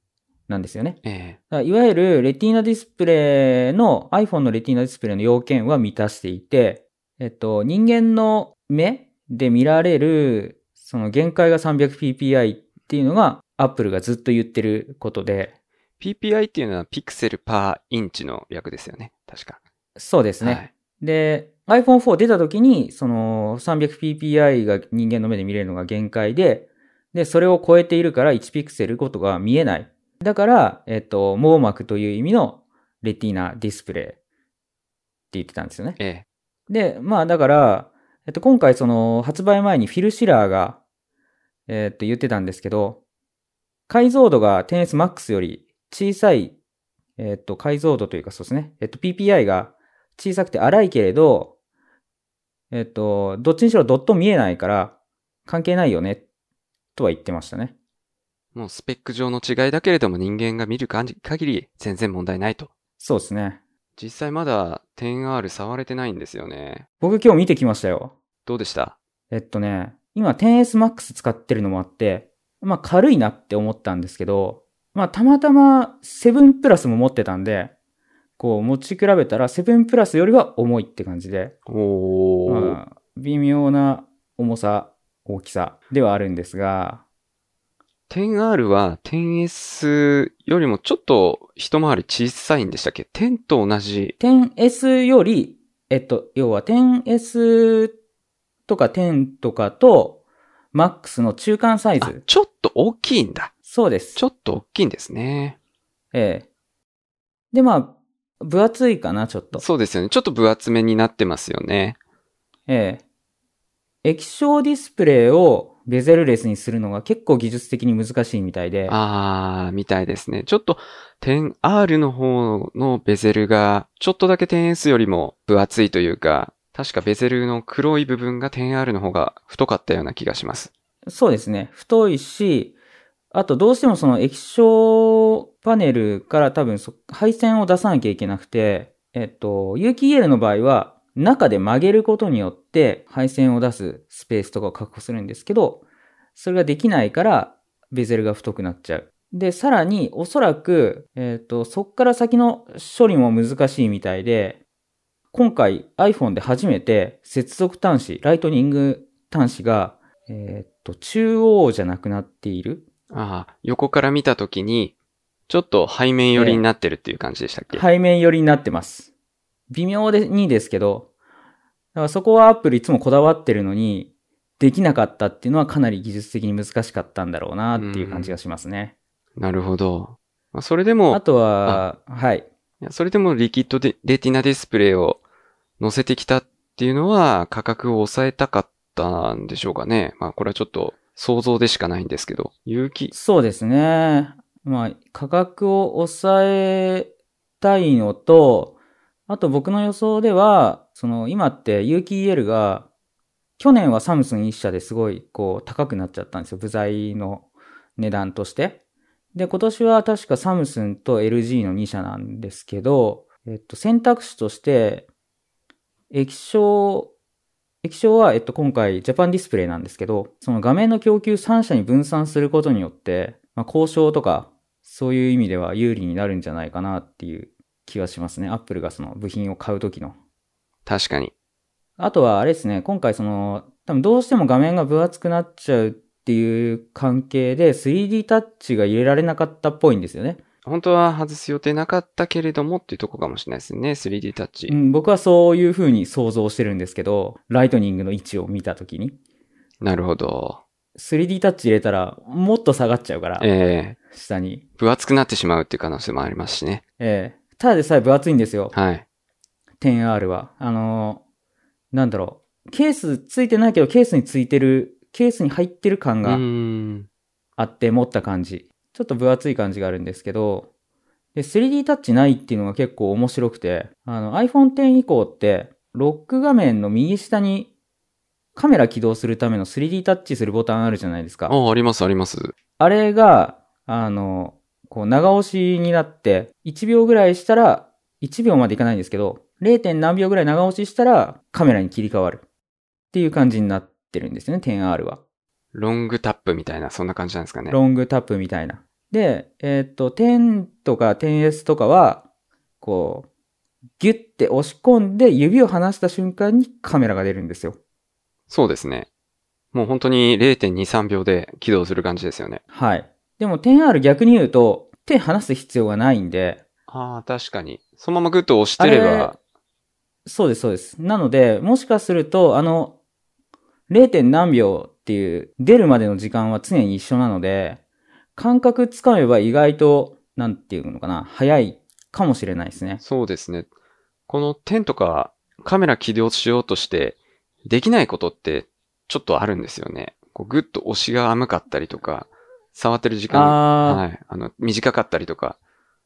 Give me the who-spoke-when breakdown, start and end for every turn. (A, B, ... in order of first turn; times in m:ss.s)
0:00.5-0:01.0 A
0:01.0-0:01.4 B
0:01.5-0:15.5 A
0:16.0-0:19.6 B
0:20.0-0:34.2 A
0:20.4-0:20.7 B
0:35.3-0:36.0 A
0:36.0-0:36.2 B
0:36.7-0:40.8 A
0:41.7-0:43.0 A
0:43.9-0:46.6 A
0:47.2-0:51.5 A
0:52.7-0:54.9 A
0:55.5-0:56.2 A
0:57.0-0:57.7 A
0:58.5-1:02.7 B
1:03.0-1:03.6 A
1:04.0-1:06.9 B
1:07.0-1:08.1 A
1:08.4-1:09.0 B
1:09.3-1:17.7 A
1:18.4-1:21.5 A
1:21.7-1:22.8 B
1:22.5-1:27.0 A
1:28.1-1:34.2 B
1:34.2-1:37.9 A
1:38.7-1:40.2 A
1:40.7-1:42.2 A
1:42.0-1:43.5 B
1:43.6-1:44.2 A
1:44.2-1:45.6 B
1:46.1-1:46.4 A
1:47.5-1:49.6 A
1:49.5-1:52.0 B
1:52.7-1:53.0 A
1:54.0-1:59.0 A
1:58.9-2:10.7 B
2:11.1-2:12.7 A
2:13.3-2:25.8 A
2:26.4-2:34.6 A
2:35.3-2:42.8 A
2:43.1-2:44.9 B
2:45.5-2:47.8 B
2:46.3-2:46.6 A
2:47.7-2:49.1 A
2:49.7-2:51.1 A
2:51.9-2:58.9 A
2:57.8-2:58.4 B
2:59.4-3:01.8 B
3:01.1-3:02.5 A
3:02.8-3:05.2 B
3:05.8-3:13.1 B
3:13.1-3:18.8 A
3:19.3-3:22.9 A
3:23.6-3:27.4 A
3:28.0-3:28.8 A
3:29.3-3:35.1 A
3:36.1-3:37.1 A
3:37.8-3:50.1 A
3:50.8-3:51.3 B
3:52.0-4:00.4 A
4:00.6-4:04.7 B
4:04.7-4:09.2 A
4:09.8-4:10.6 B
4:11.0-4:13.5 A
4:13.4-4:14.0 B
4:14.1-4:14.6 A
4:14.8-4:16.8 B
4:17.0-4:18.7 A
4:18.7-4:19.0 B
4:19.8-4:21.2 A
4:21.9-4:26.4 A
4:26.2-4:27.1 B
4:27.6-4:30.7 A
4:31.3-4:37.7 A
4:38.6-4:41.5 A
4:41.5-4:42.5 B
4:42.8-4:52.4 A
4:53.1-4:55.2 A
4:55.7-4:57.8 B
4:57.7-5:02.2 A
5:02.8-5:03.3 A
5:04.0-5:07.8 A
5:08.5-5:09.1 B
5:09.7-5:12.6 B
5:12.7-5:16.6 A
5:16.9-5:19.4 B
5:18.8-5:19.4 A
5:20.2-5:23.0 A
5:23.9-5:27.8 A
5:28.4-5:33.0 A
5:33.0-5:33.7 B
5:34.3-5:45.6 B
5:43.3-5:44.0 A